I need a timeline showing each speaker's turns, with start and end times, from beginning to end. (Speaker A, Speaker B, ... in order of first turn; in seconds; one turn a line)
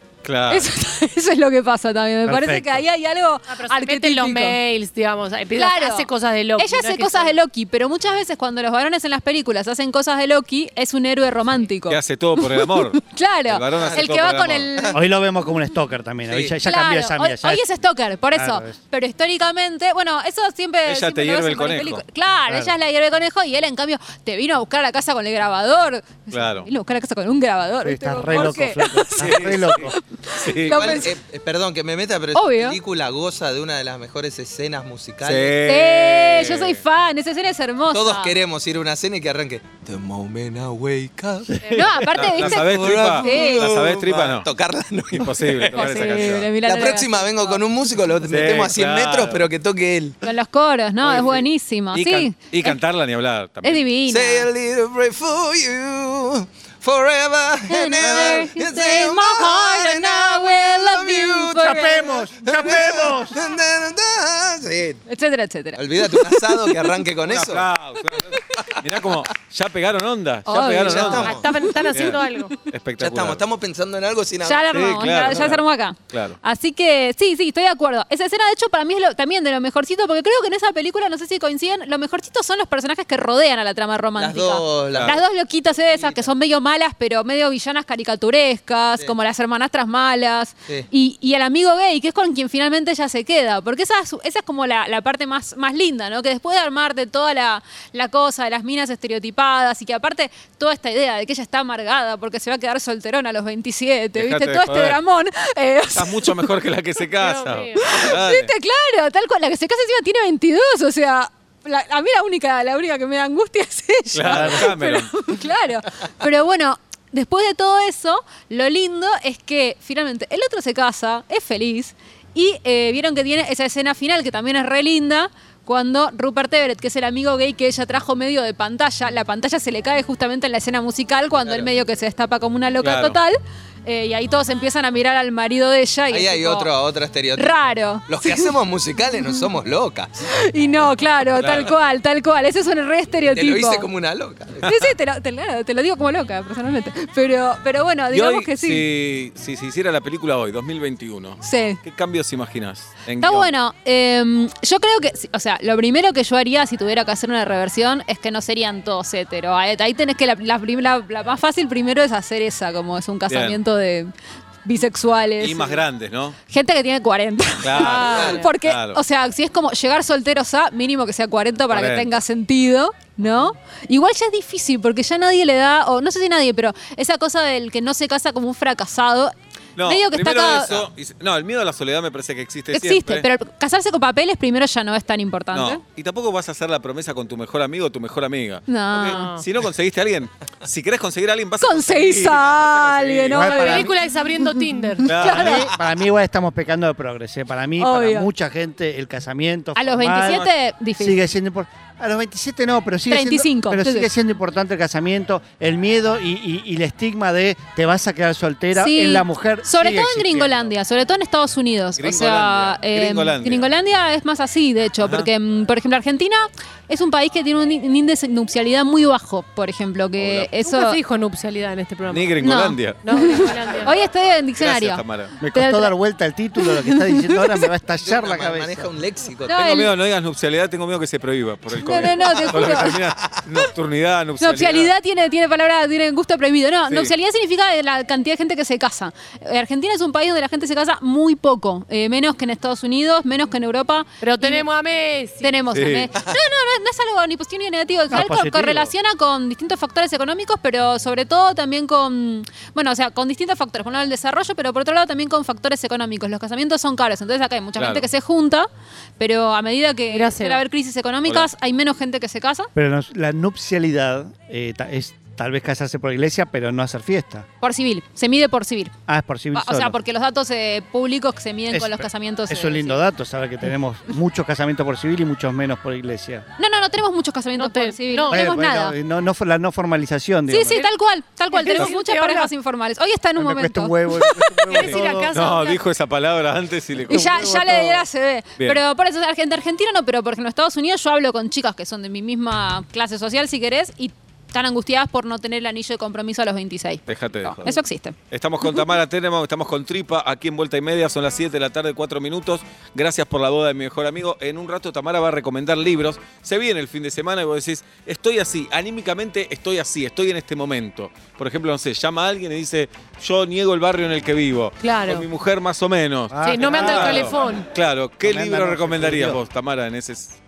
Speaker A: 0.2-0.7
Speaker B: 0.5-4.6
Speaker C: 2.2-2.8
Speaker D: 3.5-7.3
Speaker B: 5.5-15.0
Speaker A: 11.9-14.7
Speaker E: 13.8-14.0
Speaker C: 14.9-17.6
Speaker E: 16.3-16.6
Speaker B: 16.6-31.1
Speaker C: 18.3-18.8
Speaker A: 20.9-22.0
Speaker A: 26.3-26.7
Speaker C: 27.8-29.9
Speaker A: 29.2-31.0
Speaker E: 30.6-35.6
Speaker B: 32.3-32.8
Speaker A: 35.2-36.8
Speaker B: 35.6-38.3
Speaker E: 37.9-50.2
Speaker D: 38.1-38.3
Speaker B: 41.7-43.7
Speaker A: 42.0-44.5
Speaker A: 45.1-46.5
Speaker B: 45.7-47.6
Speaker A: 48.3-49.5
Speaker B: 50.2-52.8
Speaker A: 51.0-53.8
Speaker B: 53.6-54.5
Speaker E: 54.1-65.0
Speaker B: 57.7-62.2
Speaker A: 58.0-58.5
Speaker C: 61.5-63.4
Speaker B: 65.1-66.8
Speaker E: 65.8-67.6
Speaker A: 67.2-73.4
Speaker E: 68.5-68.8
Speaker B: 70.5-71.6
Speaker E: 70.6-71.5
Speaker D: 70.8-72.6
Speaker E: 73.0-74.7
Speaker B: 74.4-106.4
Speaker A: 74.7-76.4
Speaker E: 84.2-86.3
Speaker A: 84.9-85.2
Speaker A: 104.1-105.0
Speaker A: 105.9-108.5
Speaker D: 107.2-108.0
Speaker B: 107.8-136.7
Speaker A: 114.1-115.3
Speaker C: 114.3-114.6
Speaker A: 132.8-133.2
Speaker E: 136.1-140.1
Speaker B: 137.3-138.5
Speaker B: 140.3-143.9
Speaker A: 141.3-141.7
Speaker E: 143.2-144.7
Speaker B: 144.6-148.8
Speaker A: 148.1-153.5
Speaker B: 151.4-151.8
Speaker B: 153.2-164.1
Speaker A: 163.3-163.6
Speaker B: 164.6-165.8
Speaker A: 165.4-166.4
Speaker B: 166.5-180.8
Speaker A: 167.6-169.0
Speaker E: 167.8-168.4
Speaker A: 171.7-172.2
Speaker A: 173.2-173.5
Speaker A: 179.8-183.3
Speaker B: 182.7-185.8
Speaker A: 185.5-193.5
Speaker B: 188.7-189.3
Speaker D: 189.0-189.4
Speaker B: 191.6-193.9
Speaker C: 193.3-193.9
Speaker D: 193.4-195.2
Speaker B: 194.4-195.7
Speaker A: 195.0-195.7
Speaker C: 195.2-210.7
Speaker B: 197.8-198.3
Speaker B: 199.8-201.2
Speaker B: 203.1-204.1
Speaker B: 208.7-221.0
Speaker A: 212.0-213.7
Speaker A: 215.0-215.3
Speaker A: 220.2-220.5
Speaker D: 220.6-222.5
Speaker A: 222.1-223.9
Speaker B: 222.4-225.9
Speaker D: 223.0-223.9
Speaker A: 224.6-225.5
Speaker C: 225.5-228.9
Speaker B: 226.6-227.7
Speaker E: 228.0-229.7
Speaker B: 229.4-229.9
Speaker A: 229.5-234.9
Speaker B: 231.8-233.0
Speaker E: 232.3-233.4
Speaker B: 234.4-244.7
Speaker D: 244.2-245.6
Speaker B: 245.4-258.7
Speaker A: 245.7-246.1
Speaker C: 248.1-248.9
Speaker A: 257.8-258.1
Speaker B: 259.2-262.7
Speaker D: 260.1-260.6
Speaker C: 262.7-267.5
Speaker B: 267.6-268.9
Speaker C: 269.1-270.0
Speaker B: 269.5-273.0
Speaker C: 271.7-276.4
Speaker B: 276.6-278.9
Speaker D: 277.6-278.5
Speaker C: 278.3-280.8
Speaker B: 280.5-285.8
Speaker D: 281.5-282.5
Speaker C: 283.4-285.3
Speaker D: 284.7-285.6
Speaker A: 285.3-287.4
Speaker C: 287.1-288.1
Speaker B: 287.1-298.1
Speaker A: 297.1-320.4
Speaker D: 314.8-315.2
Speaker C: 316.3-317.5
Speaker D: 316.4-317.7
Speaker C: 318.2-319.4